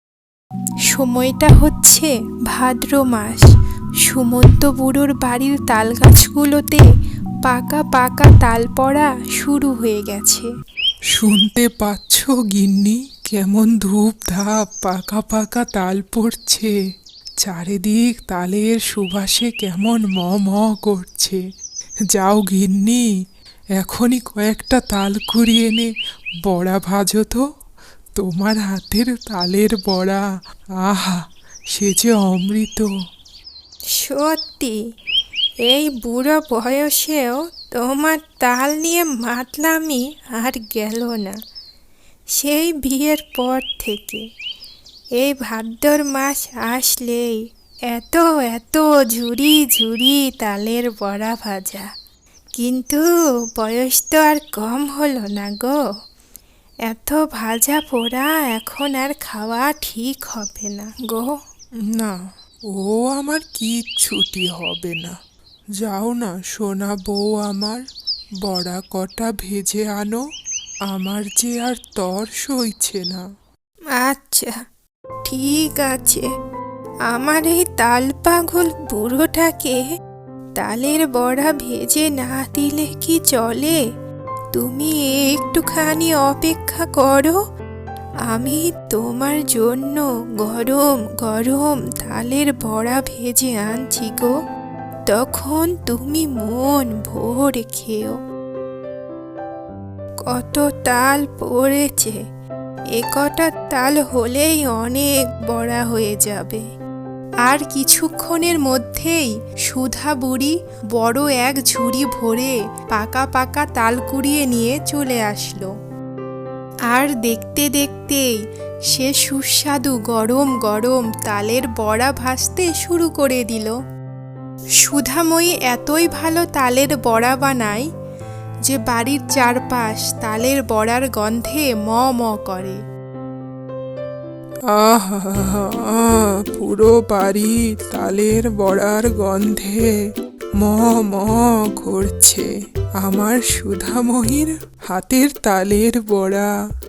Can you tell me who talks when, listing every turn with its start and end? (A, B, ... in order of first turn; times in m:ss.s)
0:00.9-0:03.5 A
0:04.0-0:06.8 A
0:07.4-0:10.5 A
0:11.1-0:16.8 B
0:17.4-0:21.4 B
0:22.1-0:23.1 B
0:23.8-0:25.9 B
0:26.5-0:27.4 B
0:28.2-0:30.2 B
0:30.9-0:31.2 B
0:31.7-0:32.9 B
0:34.0-0:34.8 A
0:35.7-0:41.4 A
0:42.4-0:44.2 A
0:45.2-0:51.9 A
0:52.6-0:55.8 A
0:56.9-1:01.4 A
1:01.9-1:02.2 B
1:02.7-1:05.2 B
1:05.8-1:07.8 B
1:08.4-1:10.2 B
1:10.9-1:13.2 B
1:14.0-1:14.5 A
1:15.3-1:16.3 A
1:17.1-1:19.8 A
1:20.6-1:23.8 A
1:24.5-1:27.4 A
1:28.3-1:34.3 A
1:35.1-1:38.2 A
1:40.3-1:42.2 A
1:43.0-1:46.6 A
1:47.4-1:55.7 A
1:56.9-1:58.4 A
1:58.9-2:03.8 A
2:04.8-2:07.8 A
2:08.7-2:12.8 A
2:14.7-2:19.9 B
2:20.6-2:26.5 B